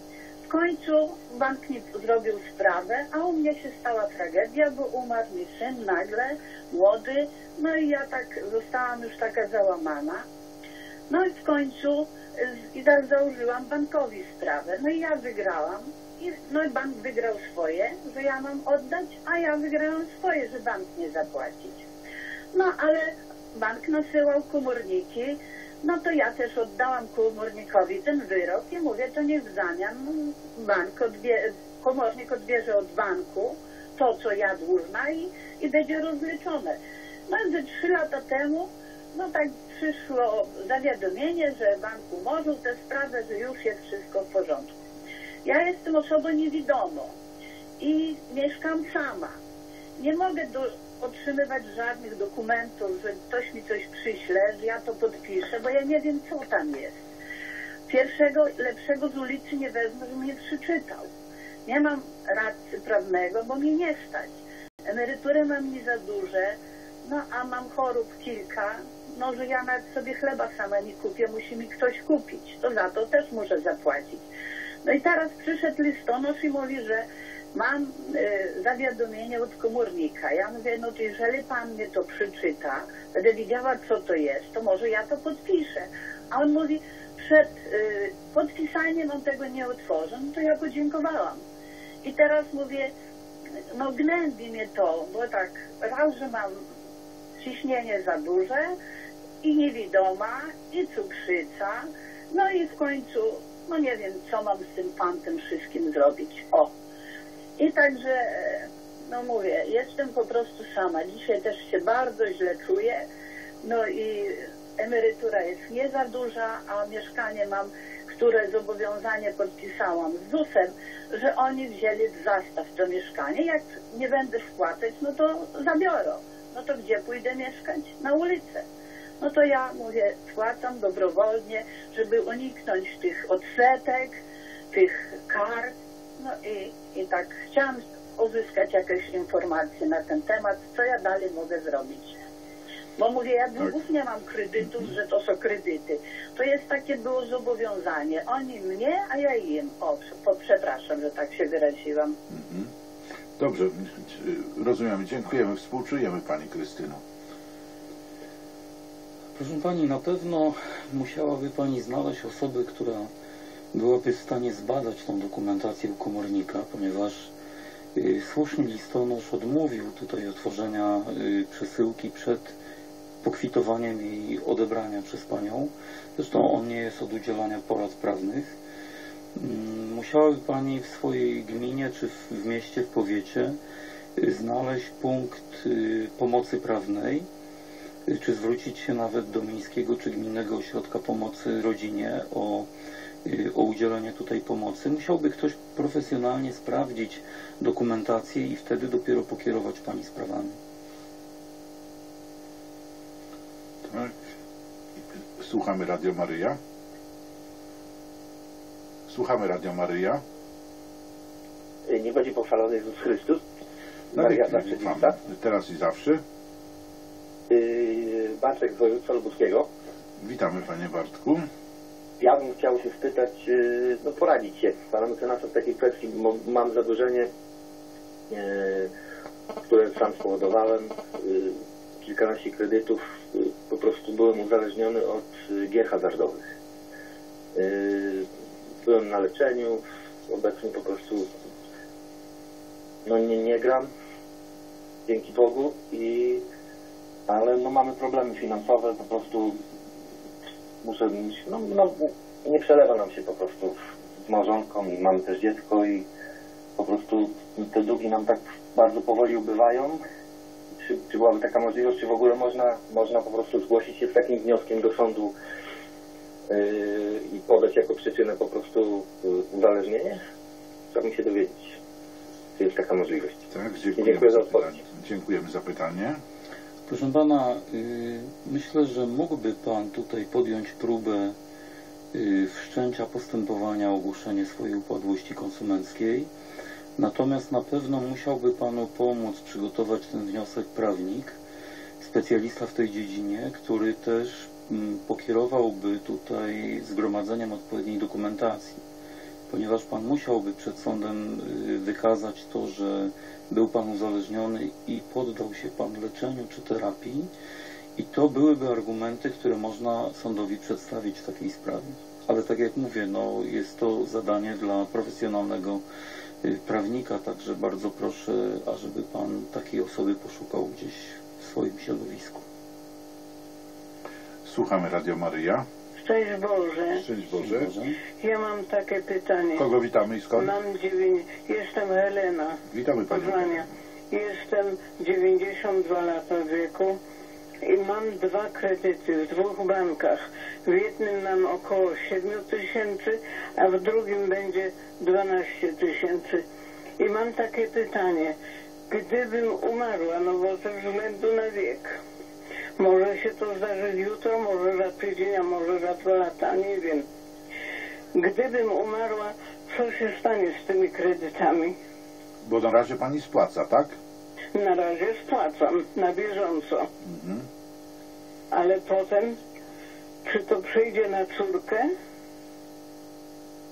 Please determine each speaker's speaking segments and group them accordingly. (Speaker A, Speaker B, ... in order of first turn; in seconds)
Speaker A: 0.5-10.2, 11.1-21.8, 22.5-44.7, 45.4-47.1, 47.8-49.3, 50.0-57.0, 57.9-61.1, 61.6-64.3, 64.9-74.2, 74.8-91.4, 92.0-92.9, 93.7-96.6, 97.4-98.7, 99.4-106.7, 107.6-113.0, 113.6-128.6, 129.2-134.2, 134.7-142.2, 143.0-152.2
Speaker B: 152.3-152.7, 153.4-157.0, 203.9-204.2, 205.4-206.6, 209.1-210.2, 214.1-216.2, 220.2-221.4, 273.5-276.2, 324.4-325.6, 327.0-327.7, 329.6-330.5, 332.7-333.7, 362.4-363.9, 367.0-367.5
Speaker C: 159.3-163.1, 163.7-167.3, 167.9-172.5, 173.2-178.5, 179.3-183.6, 184.2-187.3, 188.1-192.7, 193.2-200.6, 276.9-281.4, 282.1-286.3, 287.0-291.4, 292.0-298.8, 299.5-307.3, 307.9-315.8, 316.4-322.4, 327.4-328.0
Speaker D: 211.9-213.4, 214.1-215.2, 217.5-219.7, 222.2-227.3, 228.3-228.9, 229.7-236.4, 237.5-238.3, 238.8-241.4, 243.0-243.9, 245.1-246.4, 247.3-249.6, 250.8-256.1, 256.8-260.0, 260.8-265.3, 266.5-270.2, 270.9-271.8, 272.6-273.4, 274.0-274.7
Speaker E: 326.0-327.0, 328.2-329.7, 330.3-337.0, 337.6-346.4, 347.0-348.3, 348.9-352.0, 352.8-357.1, 358.1-361.8, 364.5-366.9, 368.5-369.4, 370.2-371.9